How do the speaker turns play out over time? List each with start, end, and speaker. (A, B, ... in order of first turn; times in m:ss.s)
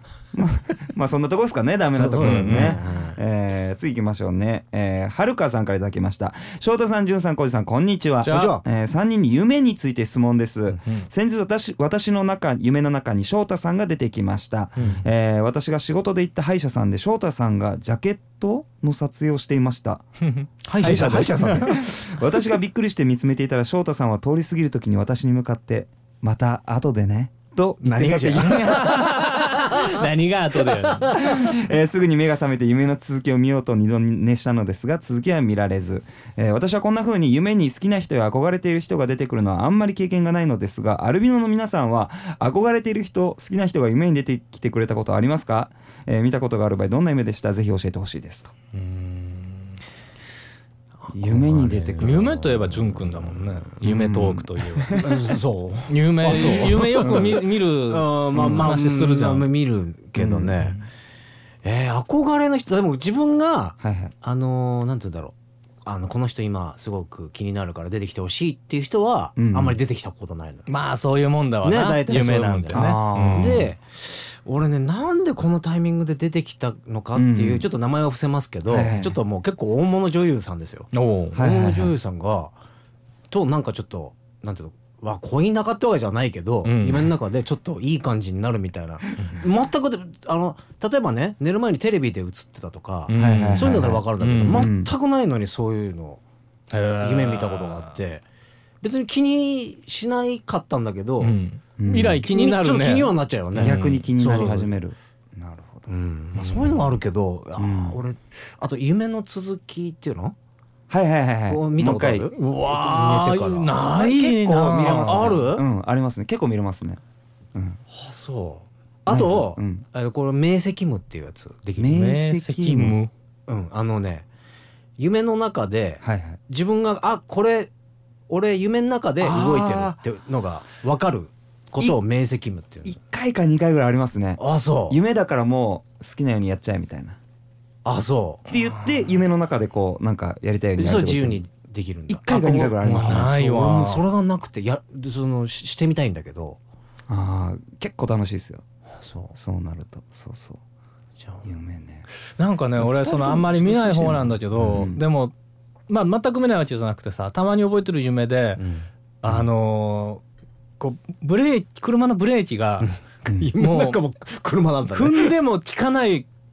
0:00.3-0:20.0 A
0:01.9-0:03.2 B
0:02.2-0:02.8 C
0:08.2-0:08.6 C
0:08.2-0:08.6 B
0:20.2-0:21.9 C
0:20.6-0:21.7 B
0:20.8-0:29.0 A
0:27.8-0:30.0 B
0:28.4-0:31.2 C
0:30.9-0:31.3 B
0:31.2-0:48.5 A
0:48.7-0:49.6 C
0:51.0-0:53.4 B
0:51.1-0:52.3 A
0:52.0-0:55.1 C
0:53.8-0:55.2 A
0:54.9-1:00.8 B
0:55.9-0:59.5 C
0:57.0-0:57.4 A
0:58.3-0:58.7 A
1:00.2-1:00.8 A
1:01.6-1:05.3 B
1:03.8-1:04.1 A
1:05.8-1:10.7 B
1:09.4-1:09.8 A
1:10.7-1:13.6 C
1:11.6-1:22.5 B
1:12.7-1:13.6 A
1:17.1-1:17.6 A
1:18.7-1:19.2 A
1:20.9-1:21.4 C
1:21.3-1:21.9 A
1:23.3-1:36.2 B
1:26.6-1:27.1 C
1:33.1-1:34.7 C
1:33.2-1:34.9 A
1:36.7-1:38.0 C
1:37.0-1:38.2 B
1:38.8-1:41.4 B
1:41.2-1:44.0 C
1:41.8-1:42.2 A
1:42.3-1:44.7 B
1:43.6-1:45.9 A
1:45.9-1:50.3 B
1:47.6-1:48.0 A
1:50.9-1:52.3 A
1:51.5-1:55.6 B
1:52.3-1:55.4 C
1:54.7-1:57.0 A
1:57.5-1:57.8 A
1:57.9-2:02.1 B
1:59.1-1:59.8 A
2:01.8-2:03.0 A
2:01.9-2:03.1 C
2:03.5-2:04.3 B
2:05.0-2:07.7 B
2:06.0-2:06.4 A
2:08.3-2:13.0 B
2:09.2-2:10.0 A
2:12.8-2:17.2 A
2:14.4-2:15.0 B
2:17.8-2:18.4 B
2:18.5-2:18.9 C
2:18.5-2:21.4 A
2:20.8-2:26.6 B
2:22.1-2:23.3 A
2:22.8-2:24.0 C
2:27.1-2:28.6 A
2:28.9-2:29.3 B
2:29.3-2:30.6 A
2:31.2-2:31.4 B
2:31.4-2:32.0 A
2:32.4-2:35.3 C
2:32.9-2:34.8 B
2:34.6-2:35.0 A
2:35.9-2:38.6 C
2:38.6-2:39.4 B
2:39.2-2:40.2 C
2:40.8-2:42.9 C
2:42.8-2:45.3 B
2:43.2-2:43.5 A
2:43.6-2:44.0 C
2:44.9-2:46.3 C